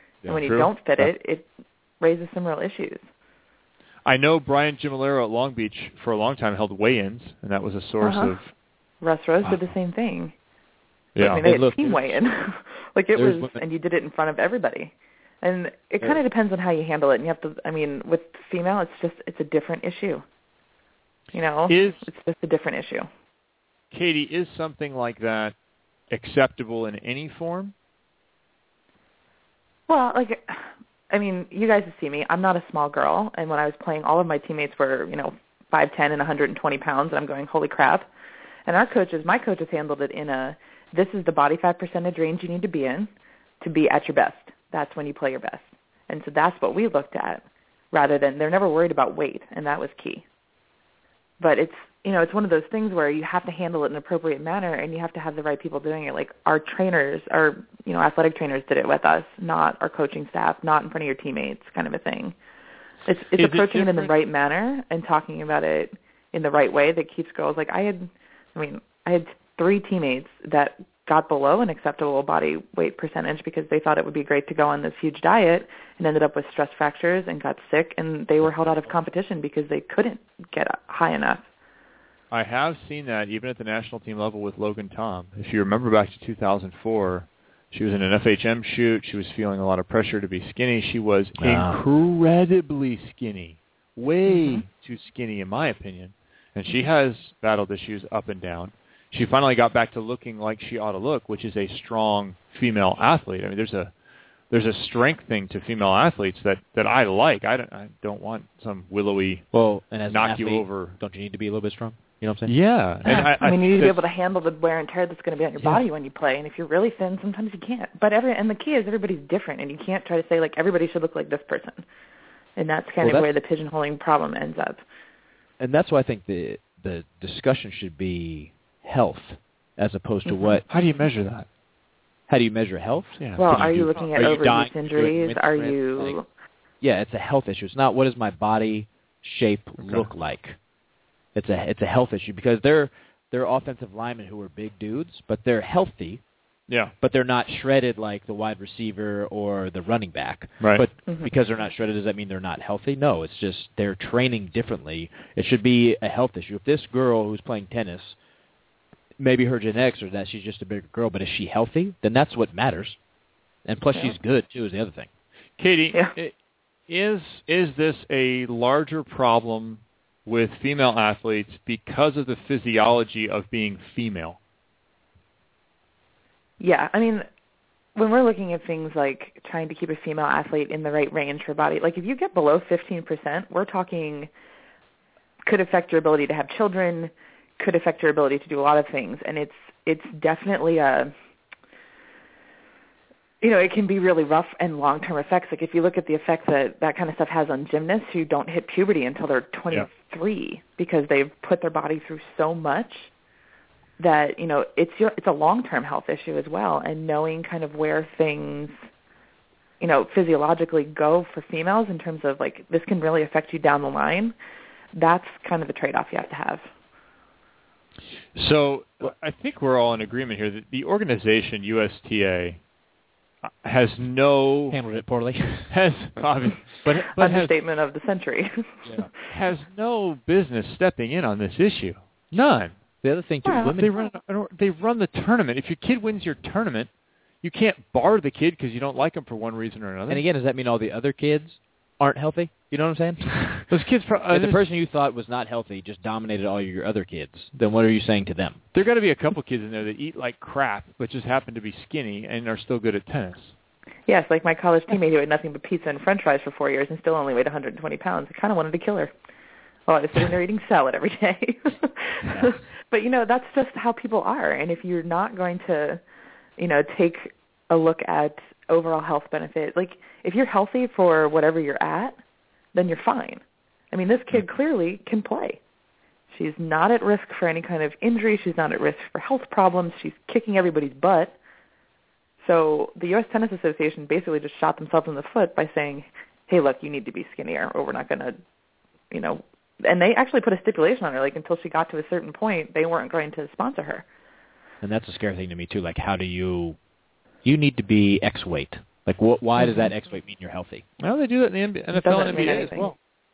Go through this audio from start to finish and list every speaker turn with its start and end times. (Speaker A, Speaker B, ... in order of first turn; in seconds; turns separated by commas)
Speaker A: 0.2-1.1, Speaker B: 0.3-1.5, Speaker C: 0.3-0.7, Speaker B: 2.0-3.0, Speaker C: 4.0-8.5, Speaker B: 8.0-8.4, Speaker B: 9.0-10.3, Speaker C: 11.2-11.4, Speaker B: 11.2-20.2, Speaker A: 11.4-12.2, Speaker A: 13.1-13.6, Speaker B: 21.3-23.1, Speaker C: 21.7-22.0, Speaker C: 23.9-25.5, Speaker C: 26.1-27.7, Speaker B: 29.9-38.1, Speaker B: 38.7-43.1, Speaker B: 43.6-50.2, Speaker B: 51.4-62.3, Speaker B: 63.0-81.4, Speaker C: 63.4-64.1, Speaker C: 82.3-103.9, Speaker A: 91.4-91.8, Speaker B: 94.2-94.6, Speaker C: 104.5-109.5, Speaker A: 109.5-112.6, Speaker C: 110.1-111.0, Speaker C: 112.5-114.0, Speaker B: 113.0-121.8, Speaker B: 122.5-124.8, Speaker A: 123.0-123.3, Speaker A: 125.6-130.6, Speaker B: 130.2-130.6, Speaker C: 130.7-131.5, Speaker A: 132.3-136.2, Speaker C: 133.2-134.3, Speaker B: 133.3-136.2, Speaker A: 136.8-140.6, Speaker C: 139.8-140.1, Speaker A: 141.3-146.2, Speaker A: 147.0-158.2, Speaker C: 150.6-150.8, Speaker A: 159.2-163.0, Speaker A: 163.6-165.1, Speaker C: 165.6-166.3, Speaker C: 166.9-174.4, Speaker B: 176.6-177.3, Speaker B: 177.9-184.3, Speaker B: 185.4-191.1, Speaker B: 193.4-203.1, Speaker B: 204.0-208.8, Speaker B: 209.8-214.3, Speaker B: 214.9-216.7, Speaker C: 218.3-222.6, Speaker C: 223.4-224.8, Speaker A: 224.7-225.7, Speaker C: 225.7-227.5, Speaker B: 226.9-229.0, Speaker C: 229.3-232.8, Speaker A: 233.0-233.9, Speaker B: 233.4-233.8, Speaker C: 233.8-236.9, Speaker C: 237.4-240.2, Speaker A: 240.1-243.7, Speaker C: 243.7-244.6, Speaker A: 244.3-248.6, Speaker C: 248.7-253.5, Speaker B: 254.1-259.1, Speaker B: 259.9-266.0, Speaker B: 266.6-272.2, Speaker B: 272.7-275.6, Speaker B: 276.3-281.3, Speaker B: 282.4-288.4, Speaker B: 289.1-294.0, Speaker A: 294.8-296.8, Speaker A: 297.4-300.8, Speaker B: 299.6-299.9, Speaker C: 301.0-302.9, Speaker B: 301.9-302.9